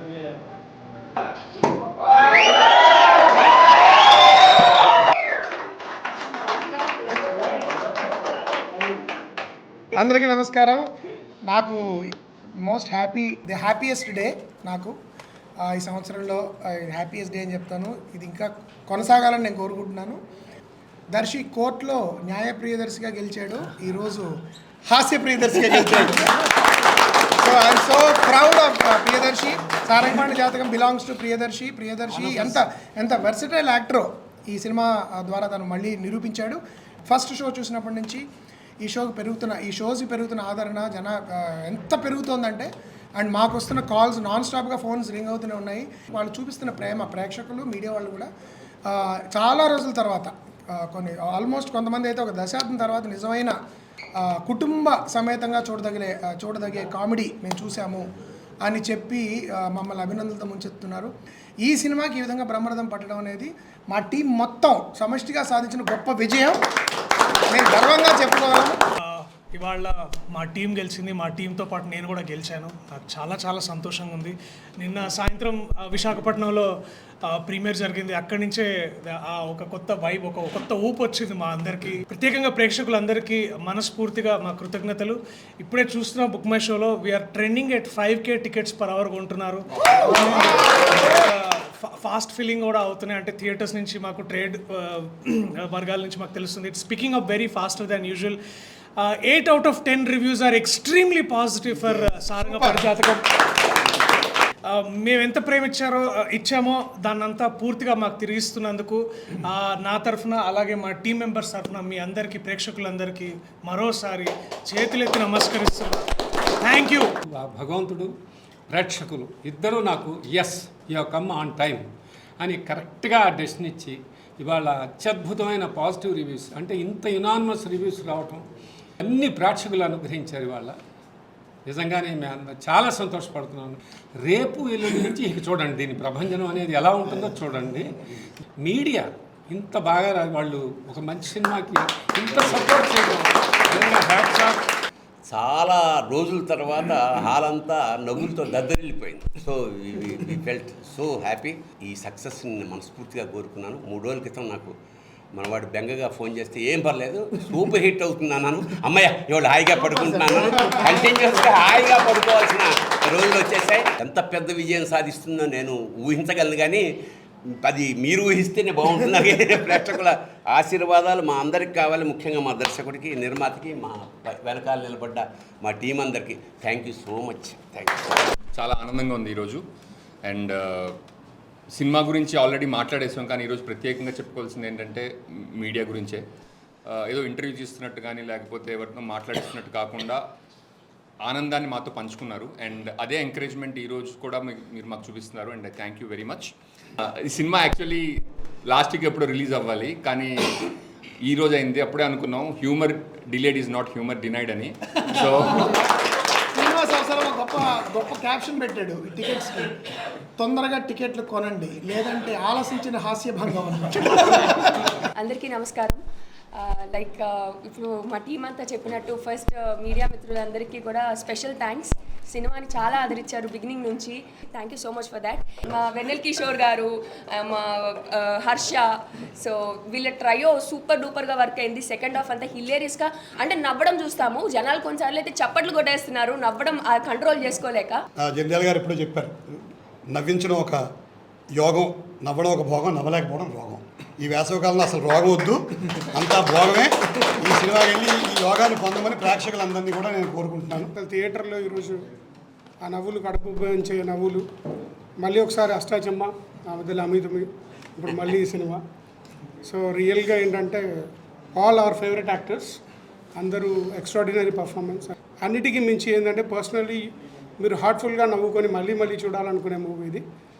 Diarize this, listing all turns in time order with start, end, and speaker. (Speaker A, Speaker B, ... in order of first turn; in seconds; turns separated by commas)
Speaker A: 9.9-10.8, Speaker A: 11.5-11.8, Speaker A: 12.6-14.9, Speaker A: 15.7-20.2, Speaker A: 21.1-24.3, Speaker A: 24.9-26.3, Speaker A: 27.4-38.2, Speaker A: 38.8-48.3, Speaker A: 48.9-53.5, Speaker A: 54.2-58.0, Speaker A: 58.6-61.1, Speaker A: 61.6-66.6, Speaker A: 67.5-68.8, Speaker B: 69.1-76.7, Speaker B: 77.3-98.4, Speaker B: 99.0-103.2, Speaker B: 104.7-116.1, Speaker B: 116.6-117.1, Speaker C: 117.2-118.1, Speaker C: 118.7-121.9, Speaker C: 122.4-128.4, Speaker C: 129.0-130.8, Speaker C: 131.6-137.9, Speaker C: 138.6-144.6, Speaker D: 145.2-154.7, Speaker D: 155.3-166.9, Speaker A: 160.5-160.8, Speaker D: 167.6-178.1, Speaker E: 178.5-179.6, Speaker E: 180.2-180.9, Speaker E: 181.7-186.2, Speaker E: 186.9-190.2, Speaker E: 191.2-198.1, Speaker E: 198.7-200.7, Speaker E: 201.2-205.7, Speaker A: 206.5-209.7, Speaker A: 210.4-214.9, Speaker F: 215.2-216.0, Speaker F: 216.5-238.0, Speaker G: 238.2-239.3, Speaker G: 240.1-240.8, Speaker G: 241.6-245.6, Speaker G: 246.1-250.9, Speaker H: 250.9-252.0, Speaker H: 252.8-254.4, Speaker H: 255.2-258.8, Speaker H: 259.6-260.8, Speaker H: 261.5-262.8, Speaker H: 263.3-270.2